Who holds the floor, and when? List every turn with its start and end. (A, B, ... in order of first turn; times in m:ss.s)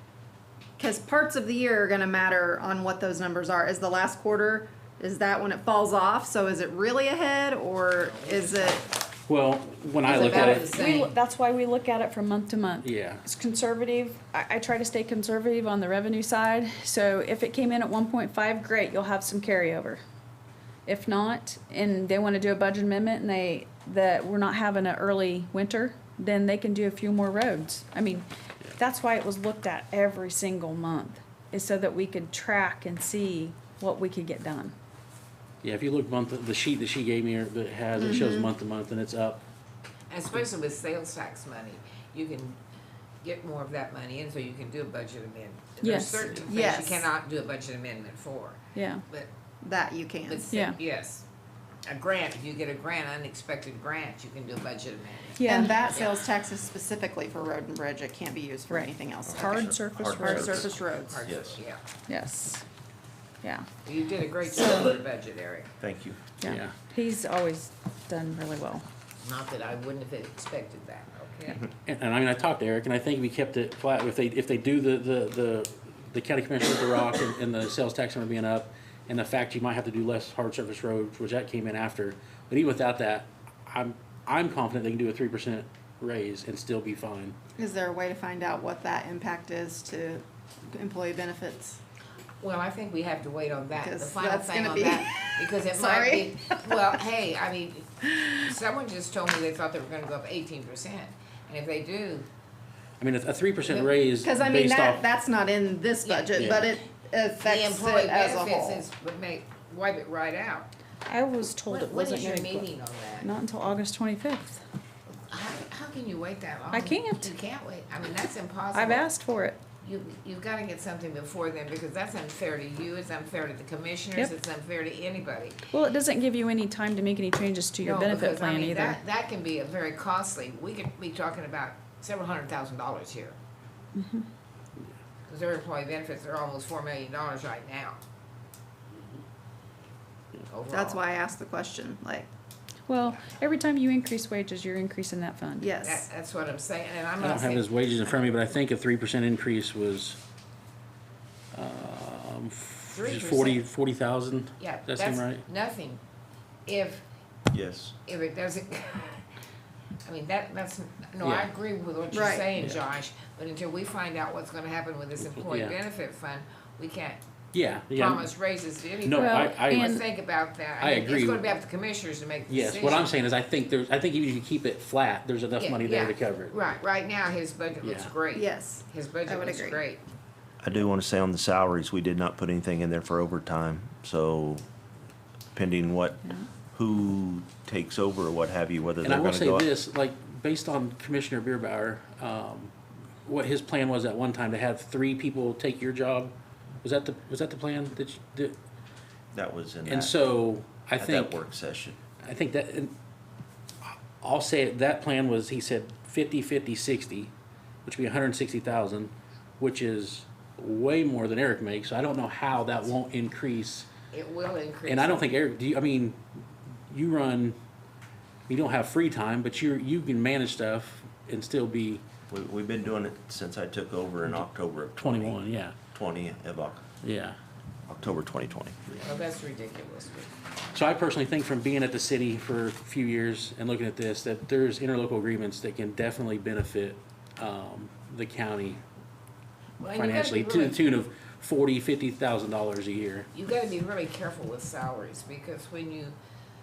0:00.8-0:08.8 A
0:08.0-0:08.9 B
0:09.3-0:10.7 C
0:10.0-0:11.2 B
0:10.1-0:20.0 D
0:12.8-0:13.2 C
0:20.8-0:34.7 D
0:35.6-0:39.4 C
0:37.9-0:38.5 A
0:40.1-0:42.6 B
0:43.2-0:49.3 B
0:45.8-0:46.4 D
0:46.4-0:47.1 A
0:48.7-0:49.0 D
0:49.6-0:50.5 A
0:50.2-0:51.2 B
0:50.5-0:50.8 D
0:51.9-0:56.2 B
0:55.4-0:55.8 D
0:55.4-1:01.2 A
0:58.7-1:00.7 D
0:59.3-1:00.7 E
1:00.9-1:01.8 B
1:01.2-1:01.6 E
1:02.1-1:02.6 D
1:03.8-1:05.7 B
1:04.5-1:05.0 D
1:05.8-1:06.2 E
1:06.4-1:08.8 D
1:06.4-1:06.7 C
1:09.2-1:11.6 B
1:11.8-1:27.4 C
1:27.6-1:31.8 A
1:32.4-1:42.3 B
1:33.8-1:37.0 A
1:43.0-1:45.0 C
1:43.7-1:48.8 A
1:46.0-1:46.7 B
1:46.3-1:46.7 C
1:47.4-1:50.7 B
1:51.1-1:52.7 D
1:51.7-1:53.3 B
1:53.2-1:54.6 D
1:55.1-1:59.1 B
1:56.7-1:57.3 D
1:58.7-1:59.6 D
1:59.8-2:05.6 B
2:05.7-2:09.0 D
2:07.8-2:13.4 B
2:13.9-2:14.2 D
2:15.2-2:18.0 B
2:20.4-2:21.0 B
2:20.7-2:22.3 A
2:22.9-2:25.8 D
2:25.6-2:26.0 A
2:25.8-2:27.7 B
2:27.2-2:30.2 C
2:31.5-2:35.4 C
2:32.9-2:33.6 B
2:34.6-2:36.0 B
2:36.7-2:37.0 B
2:37.5-2:37.9 E
2:38.0-2:39.2 B
2:40.0-2:47.2 B
2:41.2-2:41.5 C
2:42.1-2:42.5 A
2:45.2-2:45.8 C
2:47.5-2:48.2 C
2:47.9-2:53.2 B
2:49.0-2:50.0 C
2:49.2-2:50.0 D
2:50.8-2:51.5 C
2:52.5-2:56.6 C
2:55.6-3:00.0 B
2:57.8-2:58.1 C
2:58.3-2:59.8 A
3:00.6-3:04.6 E
3:05.5-3:06.2 E
3:06.7-3:09.7 E
3:09.0-3:12.7 C
3:13.2-3:18.6 C
3:19.3-3:20.2 E
3:19.8-3:21.4 C
3:21.0-3:22.0 E
3:22.2-3:22.9 C
3:23.8-3:27.3 C
3:27.8-3:33.9 C
3:34.1-3:35.3 B
3:34.8-3:36.2 C
3:36.9-3:37.6 C
3:38.5-3:42.0 C
3:42.3-3:45.4 E
3:45.0-3:45.8 C
3:45.9-3:46.8 E
3:47.0-3:47.4 C
3:47.9-3:49.0 E
3:49.0-3:50.3 B
3:50.7-3:58.8 C
3:59.8-4:00.8 B
4:00.0-4:03.3 C
4:03.3-4:06.2 B